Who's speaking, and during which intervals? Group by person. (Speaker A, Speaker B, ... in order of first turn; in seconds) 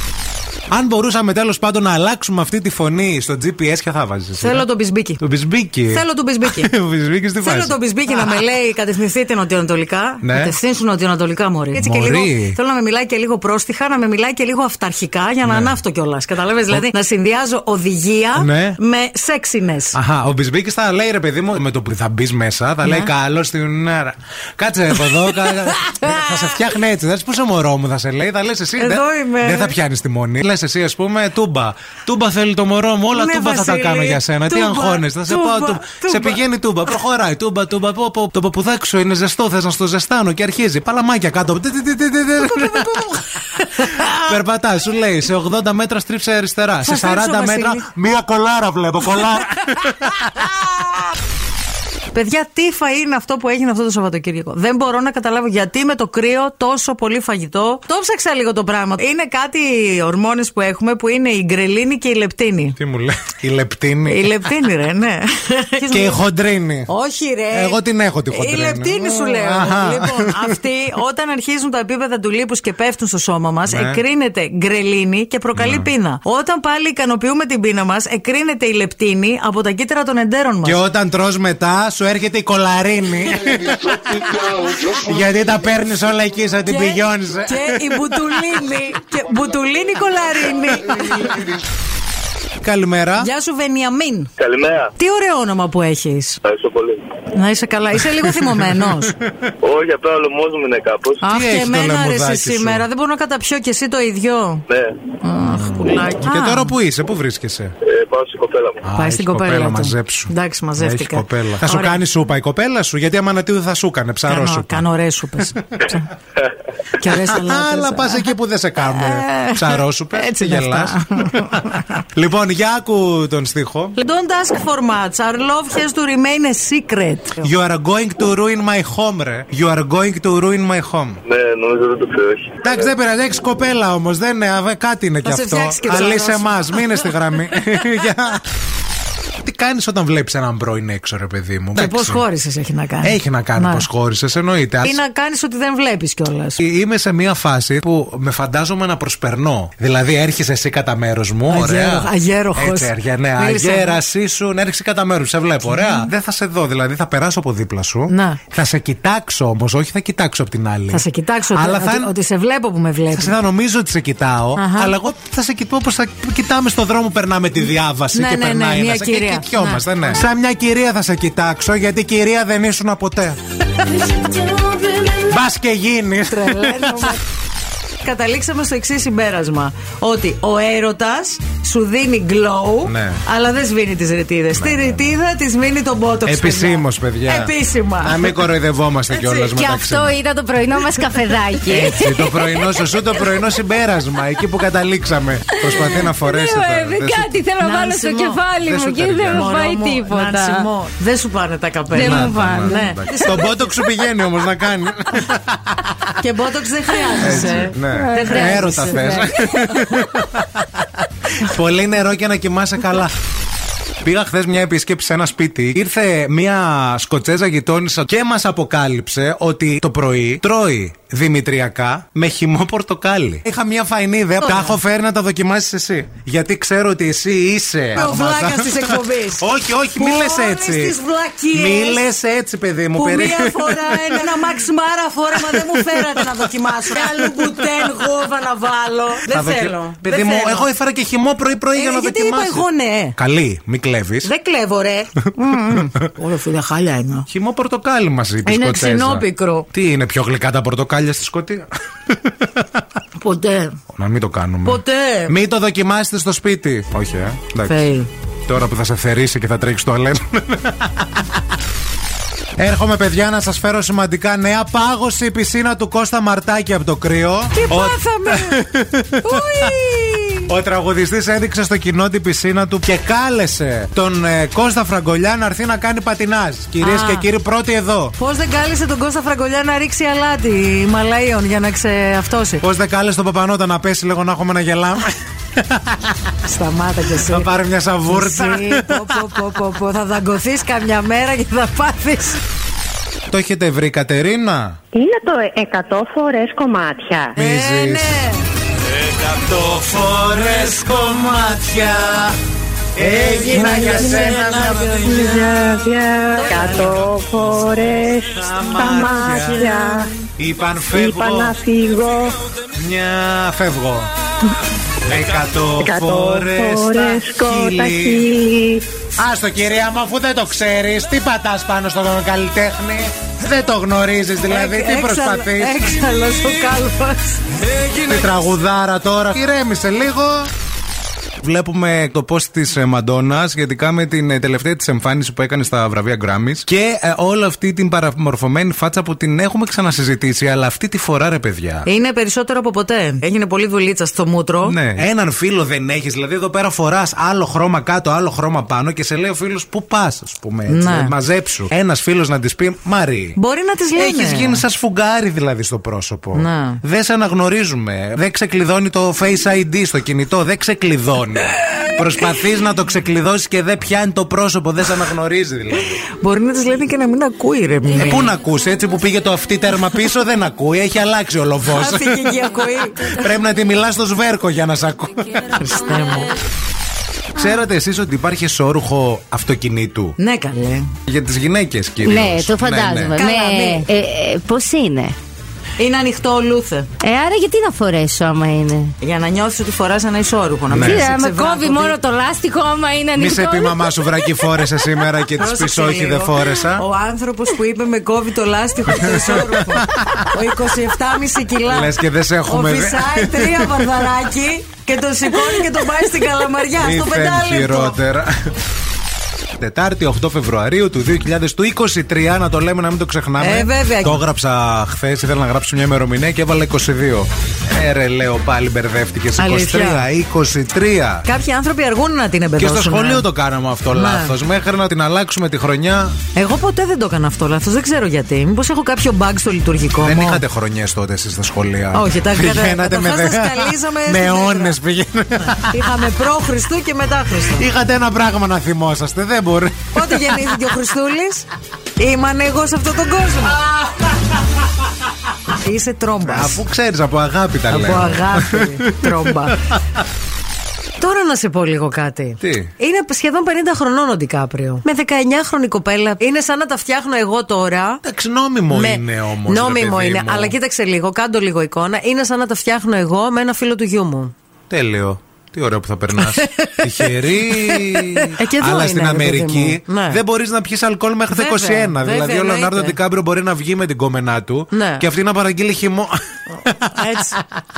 Speaker A: 0.7-4.7, 5.2-8.4, 10.2-10.6, 11.8-12.6, 15.4-15.8, 18.4-18.8, 19.9-43.2, 44.1-50.5, 62.8-64.5, 65.8-66.9, 67.5-70.6, 73.7-74.0, 75.6-75.9, 80.6-88.3, 90.9-91.6, 92.6-93.3, 98.2-99.4, 101.2-102.8, 105.5-107.7, 108.8-115.6, 117.0-124.0, 127.4-131.2, 132.6-138.5, 139.4-142.2, 143.0-145.0, 146.6-162.1, 163.1-173.4, 175.2-177.2, 182.8-183.2, 184.5-185.2, 186.2-190.2, 191.7-197.4, 198.6-199.5, 201.9-206.2, 207.2-213.2, 214.0-231.0, 231.5-234.5, 235.3-238.1, 239.3-244.3, 245.7-246.1, 247.3-252.8, 253.9-257.8, 258.4-261.4, 262.6-269.8, 270.5-278.1, 282.6-286.3, 287.2-289.3, 293.3-294.8, 297.3-298.2, 298.9-302.4, 302.9-305.4, 306.6-306.9, 308.3-311.6, 312.7-314.1, 315.0-318.3, 319.2-325.9, 327.7-330.5, 331.4-341.9, 344.6-353.4, 353.9-366.0, 367.9-375.6, 377.3-380.2, 381.1-383.1, 390.7-391.1, 393.1-396.8, 398.9-400.3, 401.7-404.1, 406.8-408.6, 409.6-421.3, 422.6-426.2, 430.0-435.9, 437.5-440.6, 446.2-449.6, 452.4-452.7, 458.0-460.6, 464.7-477.4
Speaker B: 4.4-5.2, 5.9-6.7, 7.4-20.0, 25.8-26.3, 28.8-29.8, 33.1-36.4, 42.4-44.4, 46.9-47.9, 52.1-62.8, 64.1-66.2, 66.9-67.8, 68.3-80.8, 86.7-91.4, 93.2-94.3, 95.0-96.4, 97.3-99.2, 101.2-104.7, 105.2-106.8, 109.0-112.0, 114.2-116.1, 117.0-122.0, 124.0-127.5, 135.2-137.1, 141.8-143.9, 144.8-146.6, 151.5-154.0, 155.7-156.1, 158.1-158.4, 160.9-163.4, 164.6-165.0, 168.1-170.2, 173.9-175.2, 176.3-177.2, 178.0-188.4, 189.1-189.5, 197.6-198.4, 199.2-203.8, 206.2-209.2, 224.4-224.8, 227.9-232.0, 232.9-240.7, 241.8-243.2, 244.2-247.3, 248.4-249.7, 253.2-253.8, 254.7-255.3, 257.6-258.1, 267.5-268.6, 269.2-270.5, 276.8-277.3, 278.2-282.6, 286.4-287.5, 288.1-292.4, 297.4-298.4, 303.4-305.2, 306.3-307.1, 324.5-327.4, 341.9-344.8, 350.7-351.1, 353.4-354.6, 356.3-356.8, 366.2-368.3, 371.7-373.3, 375.6-376.3, 380.2-380.9, 383.2-383.9, 385.8-386.9, 389.0-391.9, 395.4-401.9, 402.5-408.0, 413.4-414.2, 419.4-420.1, 421.3-423.3, 423.9-424.3, 426.3-430.4, 431.9-434.8, 435.6-437.7, 439.9-443.6, 445.5-446.6, 447.7-449.6, 451.0-458.0, 458.7-464.3, 466.2-470.2, 471.3-473.0, 474.7-475.1, 476.8-477.4
Speaker C: 94.4-94.9, 96.5-97.0, 99.6-101.2, 104.7-105.0, 107.8-108.8, 131.2-132.8
Speaker D: 189.6-192.9, 195.6-200.7, 201.9-202.9, 207.2-209.7, 382.0-385.1, 387.0-388.9, 390.8-394.5
Speaker E: 294.9-297.3, 303.4-310.1, 310.9-312.3, 315.8-318.8